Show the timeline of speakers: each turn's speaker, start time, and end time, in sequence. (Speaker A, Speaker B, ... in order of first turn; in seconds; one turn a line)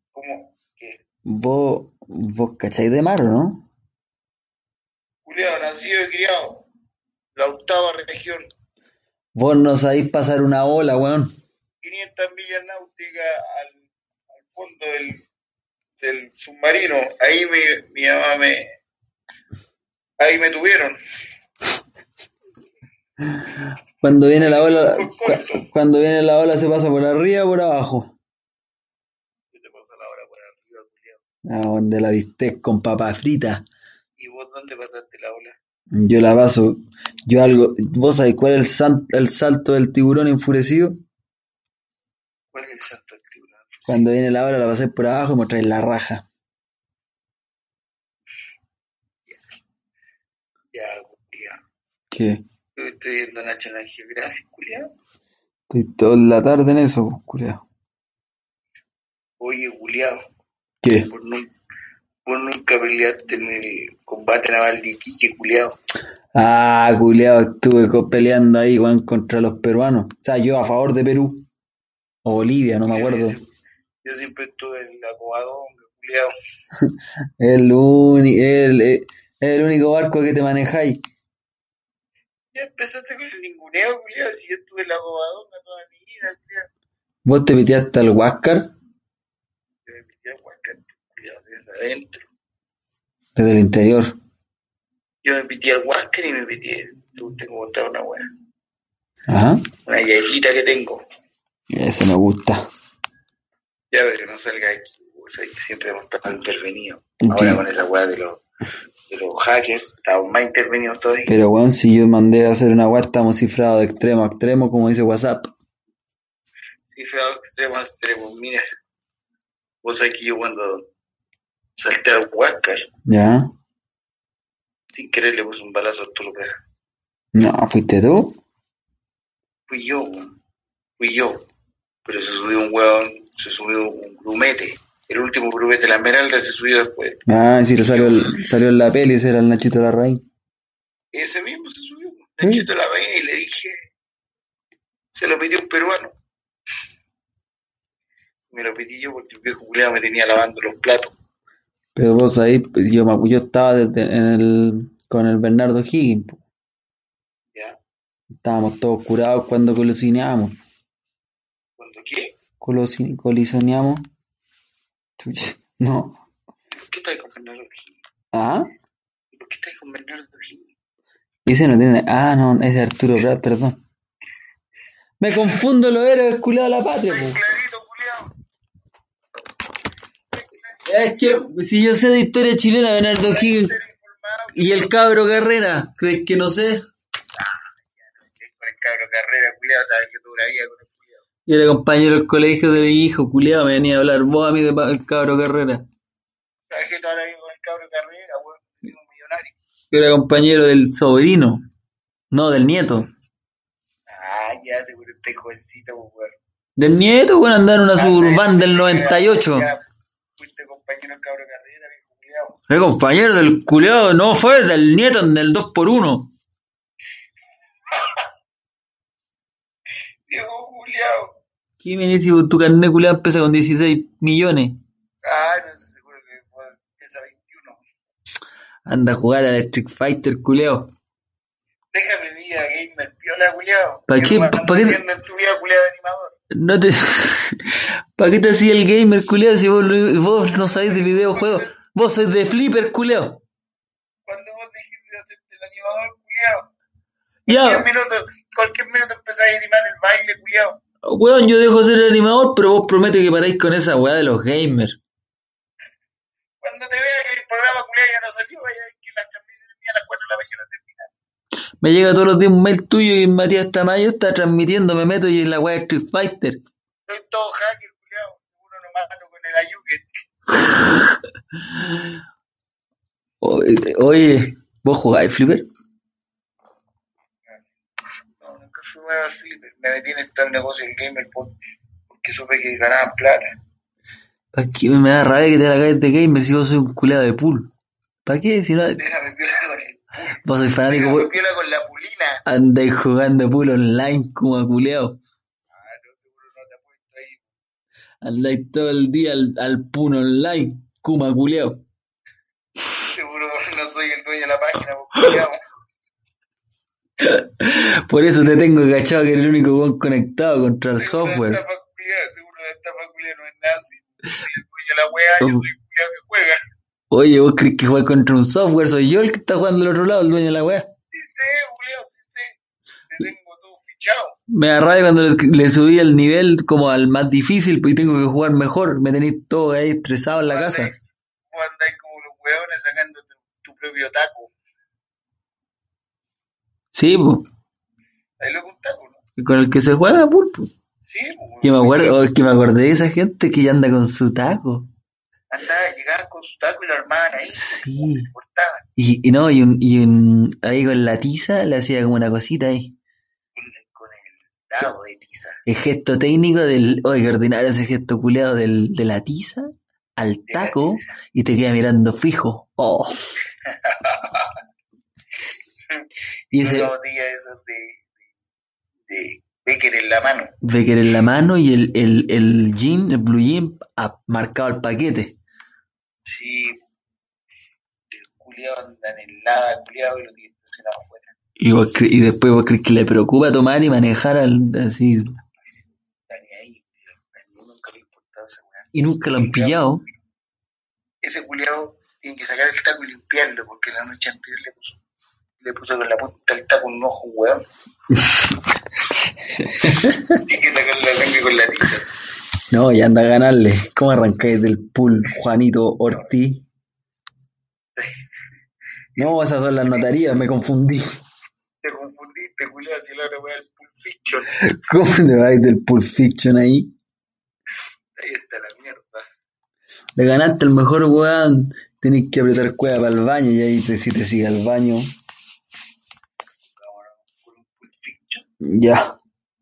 Speaker A: 0.1-1.0
Speaker B: 1.2-3.6
Speaker A: 5.2-6.7
Speaker A: 7.3-8.5
Speaker B: 9.3-11.3
Speaker A: 11.8-15.2
Speaker A: 16.0-18.8
Speaker A: 20.2-21.0
Speaker B: 23.2-28.1
Speaker A: 24.3-25.7
Speaker A: 29.5-31.2
Speaker B: 31.4-33.6
Speaker A: 34.2-35.6
Speaker B: 35.9-41.0
Speaker A: 42.5-44.1
Speaker B: 43.9-46.2
Speaker A: 50.7-51.6
Speaker B: 52.1-52.4
Speaker A: 52.8-54.9
Speaker B: 55.7-57.6
Speaker A: 59.4-60.2
Speaker B: 60.8-61.1
Speaker A: 61.1-61.5
Speaker A: 62.2-65.8
Speaker B: 66.3-71.4
Speaker B: 72.2-73.4
Speaker A: 72.8-73.5
Speaker A: 74.0-76.3
Speaker B: 76.8-81.0
Speaker A: 82.5-86.7
Speaker B: 87.2-88.7
Speaker A: 89.8-92.3
Speaker B: 93.3-94.2
Speaker A: 95.2-98.2
Speaker B: 99.3-99.7
Speaker A: 99.8-101.0
Speaker B: 101.7-102.7
Speaker A: 103.9-108.4
Speaker B: 107.2-107.6
Speaker A: 109.1-111.3
Speaker B: 111.3-115.5
Speaker A: 116.9-118.6
Speaker A: 119.8-120.9
Speaker A: 121.8-122.9
Speaker B: 123.1-123.5
Speaker A: 124.9-126.5
Speaker B: 127.3-128.4
Speaker A: 129.7-130.4
Speaker A: 131.0-131.4
Speaker A: 132.1-137.2
Speaker B: 137.2-140.2
Speaker A: 137.8-138.3
Speaker A: 141.1-143.8
Speaker B: 142.4-142.7
Speaker A: 145.1-146.2
Speaker A: 148.5-151.1
Speaker B: 151.9-156.4
Speaker B: 158.4-160.6
Speaker A: 161.8-162.3
Speaker B: 162.6-164.1
Speaker B: 165.2-166.2
Speaker A: 166.7-168.0
Speaker B: 168.3-168.7
Speaker A: 169.3-170.7
Speaker B: 171.4-173.8
Speaker B: 175.2-177.4
Speaker A: 177.1-178.3
Speaker A: 180.3-181.4
Speaker B: 180.8-183.7
Speaker A: 183.2-184.9
Speaker B: 184.5-186.8
Speaker A: 187.3-191.3
Speaker B: 191.5-195.8
Speaker A: 196.7-199.6
Speaker B: 199.9-201.6
Speaker B: 202.3-203.1
Speaker A: 204.1-206.3
Speaker B: 206.8-209.7
Speaker A: 207.9-209.8
Speaker A: 210.4-212.6
Speaker B: 212.7-216.3
Speaker A: 220.3-221.3
Speaker B: 221.8-224.8
Speaker A: 225.2-227.8
Speaker B: 228.8-230.9
Speaker A: 231.9-236.3
Speaker B: 234.1-235.0
Speaker B: 236.5-243.4
Speaker A: 240.5-241.7
Speaker A: 244.3-246.7
Speaker B: 247.5-247.9
Speaker A: 247.5-250.8
Speaker B: 251.0-255.0
Speaker A: 256.6-261.1
Speaker B: 261.8-266.6
Speaker A: 267.1-270.1
Speaker B: 271.7-272.1
Speaker B: 273.4-275.7
Speaker A: 278.4-281.5
Speaker A: 282.1-283.6
Speaker B: 284.5-287.7
Speaker B: 288.2-289.0
Speaker A: 289.0-292.4
Speaker B: 290.4-291.3
Speaker B: 292.4-295.2
Speaker A: 295.7-297.4
Speaker B: 298.2-301.8
Speaker A: 303.0-305.6
Speaker B: 307.2-311.6
Speaker A: 311.0-316.6
Speaker B: 317.1-320.9
Speaker A: 321.1-322.6
Speaker A: 323.1-324.4
Speaker B: 324.5-330.9
Speaker A: 330.4-331.0
Speaker A: 331.5-334.5
Speaker B: 336.9-337.4
Speaker A: 338.4-339.2
Speaker B: 339.4-340.7
Speaker A: 341.0-342.2
Speaker B: 341.6-344.9
Speaker A: 345.5-348.8
Speaker B: 347.5-348.3
Speaker B: 349.0-352.9
Speaker A: 353.5-355.6
Speaker B: 355.6-363.2
Speaker A: 360.5-361.0
Speaker A: 363.6-364.5
Speaker A: 365.9-368.1
Speaker B: 366.5-366.9
Speaker A: 369.1-370.6
Speaker B: 370.6-375.4
Speaker A: 376.2-376.8
Speaker A: 378.1-381.3
Speaker B: 381.6-385.4
Speaker A: 385.6-389.8
Speaker B: 388.9-390.0
Speaker A: 391.2-395.0
Speaker A: 395.6-397.6
Speaker B: 398.1-398.5
Speaker B: 399.6-400.4
Speaker A: 400.4-402.1
Speaker B: 402.7-406.6
Speaker A: 409.1-410.3
Speaker B: 409.2-411.2
Speaker A: 411.8-414.5
Speaker B: 414.6-416.9
Speaker A: 418.1-419.2
Speaker B: 420.1-425.1
Speaker A: 426.7-428.4
Speaker B: 428.6-429.1